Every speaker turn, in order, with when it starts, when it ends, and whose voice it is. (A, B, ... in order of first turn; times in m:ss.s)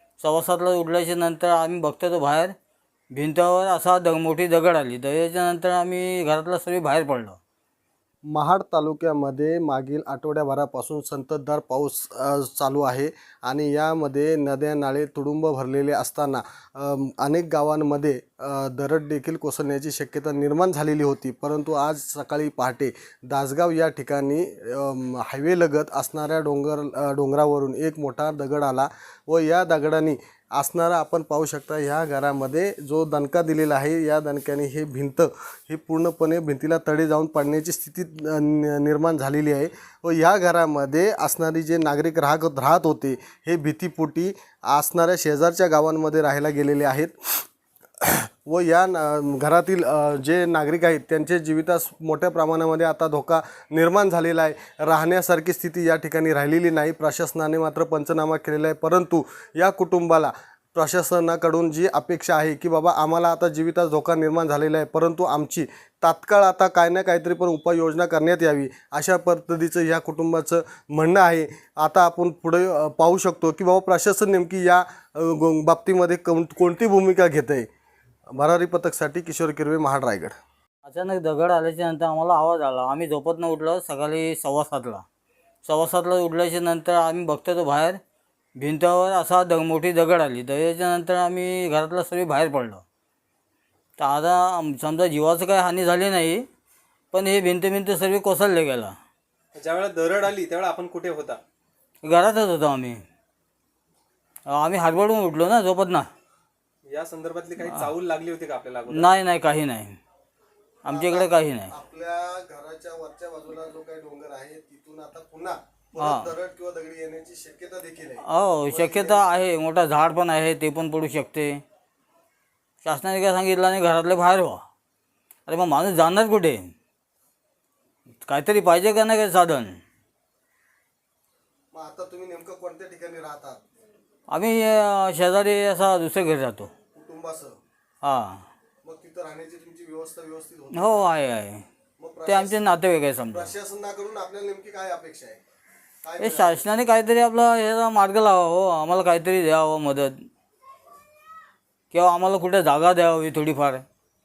0:00.2-0:02.5 A
0:03.1-0:07.4 A
0:08.3-0:47.2 B
0:48.0-1:17.6 B
1:18.3-1:20.3 B
1:20.8-1:25.0 A
1:25.6-1:28.0 A
1:28.6-1:32.8 A
1:34.0-1:36.4 A
1:37.1-1:39.0 A
1:39.5-1:41.4 C
1:42.0-1:43.0 A
1:44.5-1:46.1 A
1:46.9-1:49.1 C
1:48.9-1:50.0 A
1:50.8-1:51.7 A
1:50.8-1:59.2 B
1:56.0-1:56.3 A
1:58.2-2:01.6 A
2:02.8-2:04.6 A
2:05.5-2:06.7 A
2:08.2-2:09.8 A
2:11.7-2:13.6 B
2:14.3-2:16.7 A
2:16.9-2:17.6 B
2:18.0-2:18.4 A
2:18.8-2:21.0 B
2:20.7-2:21.6 A
2:22.0-2:22.6 B
2:22.3-2:23.5 A
2:23.3-2:25.4 B
2:26.0-2:26.7 B
2:26.2-2:30.2 A
2:31.9-2:33.8 A